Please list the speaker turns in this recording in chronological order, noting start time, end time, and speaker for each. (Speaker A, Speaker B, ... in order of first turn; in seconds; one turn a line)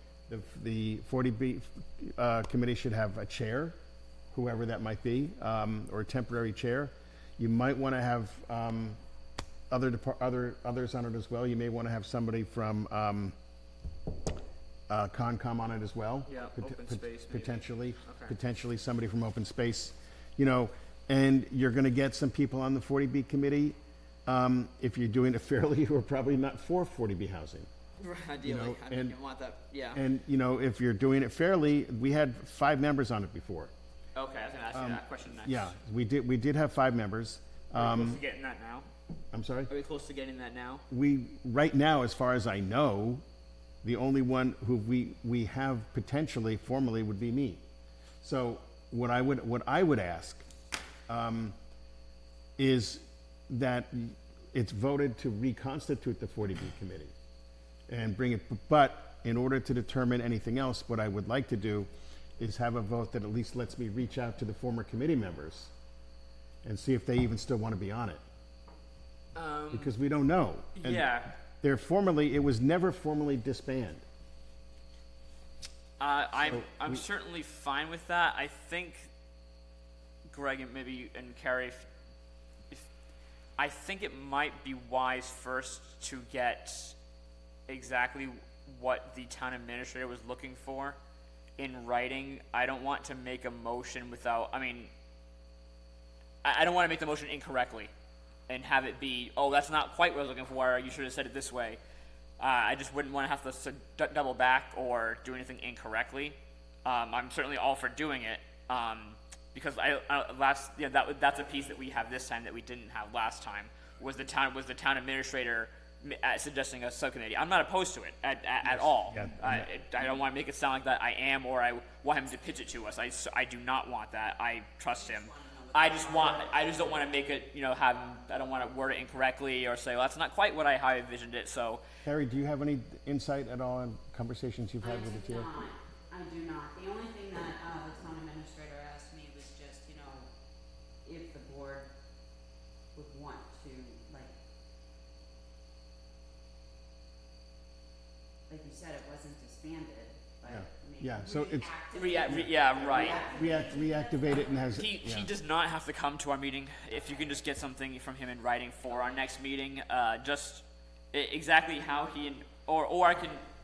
Speaker A: 0.3-3.8
Speaker A: 4.3-9.0
Speaker A: 9.7-13.3
Speaker A: 14.9-27.7
Speaker B: 16.2-18.3
Speaker B: 28.0-30.0
Speaker A: 28.4-29.2
Speaker A: 29.9-33.7
Speaker B: 34.1-35.7
Speaker A: 34.7-38.2
Speaker B: 37.7-38.9
Speaker A: 39.3-39.7
Speaker B: 39.7-40.8
Speaker A: 40.9-43.2
Speaker A: 43.8-47.6
Speaker A: 48.2-50.5
Speaker A: 51.1-51.5
Speaker A: 52.6-57.1
Speaker A: 57.9-65.7
Speaker A: 66.6-68.2
Speaker B: 69.3-69.9
Speaker A: 69.7-74.0
Speaker B: 70.8-71.3
Speaker B: 76.0-79.1
Speaker A: 76.4-77.0
Speaker B: 80.3-81.9
Speaker B: 83.6-87.0
Speaker B: 87.7-91.0
Speaker B: 91.6-94.9
Speaker B: 96.4-97.9
Speaker B: 98.5-101.8
Speaker B: 102.4-131.8
Speaker A: 118.7-119.7
Speaker C: 125.0-127.0
Speaker A: 132.0-135.5
Speaker C: 134.8-140.3
Speaker C: 141.0-141.9
Speaker C: 142.9-144.3
Speaker C: 148.5-154.7
Speaker A: 150.5-151.7
Speaker B: 151.9-153.4
Speaker A: 152.2-155.3
Speaker B: 154.7-163.4